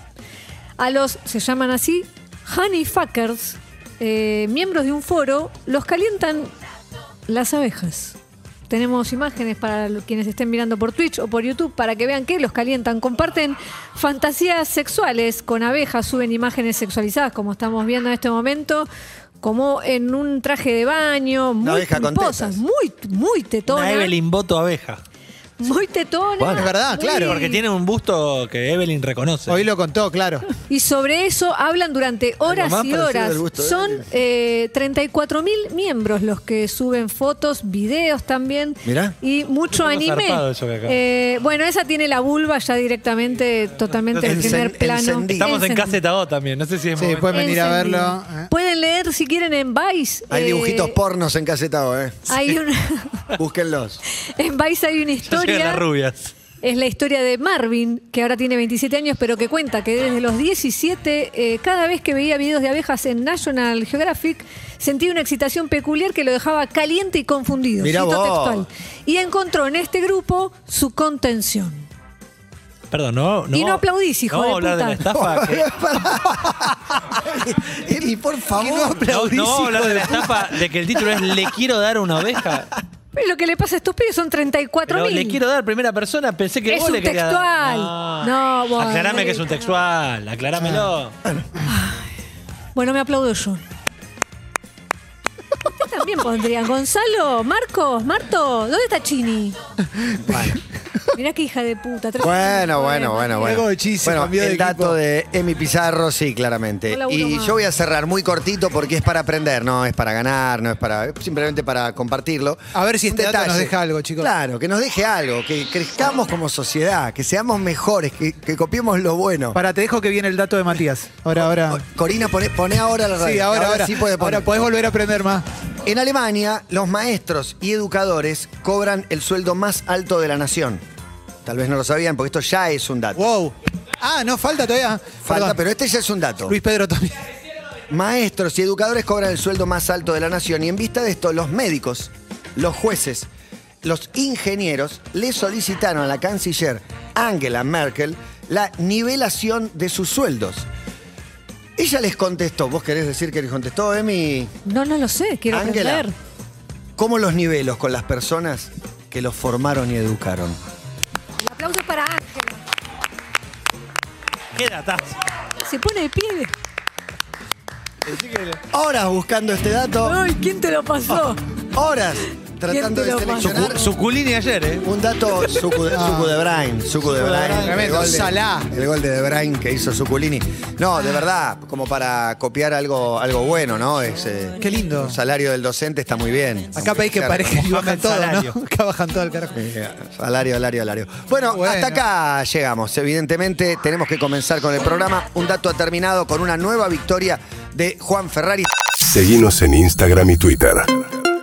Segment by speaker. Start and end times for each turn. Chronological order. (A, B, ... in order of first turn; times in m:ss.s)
0:00.8-0:06.5 A
0:07.3-0:08.2 A
0:08.7-0:18.9 A
0:19.4-0:24.1 A
0:21.6-0:22.6 B
0:23.7-0:25.0 C
0:25.6-0:27.6 A
0:26.4-0:26.7 B
0:26.6-0:27.3 D
0:27.0-0:29.7 C
0:29.5-0:30.5 D
0:30.7-0:46.0 A
0:32.4-0:34.1 B
0:38.8-0:39.2 B
0:39.7-0:41.0 C
0:44.1-0:44.6 C
0:44.2-0:45.6 B
0:45.4-0:47.7 C
0:47.0-0:48.5 D
0:47.3-0:51.0 A
0:50.3-0:52.2 B
0:52.3-0:53.2 A
0:53.4-0:54.0 B
0:54.2-0:55.8 A
0:55.3-0:56.3 C
0:56.6-1:11.9 A
1:07.8-1:08.7 B
1:12.9-1:15.7 C
1:13.5-1:15.0 A
1:15.1-1:19.1 B
1:18.6-1:20.3 D
1:19.0-1:22.7 C
1:23.1-1:25.4 A
1:24.9-1:31.1 C
1:26.7-1:29.7 A
1:30.6-1:31.6 B
1:31.7-1:32.1 A
1:32.8-1:33.6 A
1:35.8-1:39.6 A
1:40.0-1:40.4 D
1:40.2-1:40.6 B
1:41.1-1:43.5 A
1:42.2-1:59.6 B
1:43.4-1:45.0 D
1:46.9-1:47.6 A
1:52.7-1:54.3 D
1:59.5-2:01.8 D
2:01.4-2:04.7 B
2:03.2-2:05.5 D
2:05.8-2:10.8 B
2:11.4-2:13.2 B
2:13.2-2:15.6 D
2:15.2-2:16.6 B
2:16.5-2:17.3 D
2:17.9-2:23.3 B
2:23.8-2:30.7 B
2:31.8-2:34.5 B
2:34.7-2:36.1 A
2:35.5-2:36.1 B
2:37.0-2:40.6 B
2:41.4-2:42.6 A
2:44.6-2:45.2 C
2:45.6-2:46.5 A
2:48.1-2:48.6 C
2:48.7-2:50.2 B
2:50.0-2:51.4 A
2:51.7-2:53.9 B
2:52.7-2:53.8 A
2:53.4-2:54.8 C
2:54.8-3:08.5 B
2:55.9-2:56.4 D
2:57.2-2:58.7 D
2:57.2-2:58.2 C
3:04.6-3:05.2 D
3:06.8-3:09.6 D
3:09.5-3:18.7 B
3:11.5-3:12.0 D
3:19.1-3:21.0 E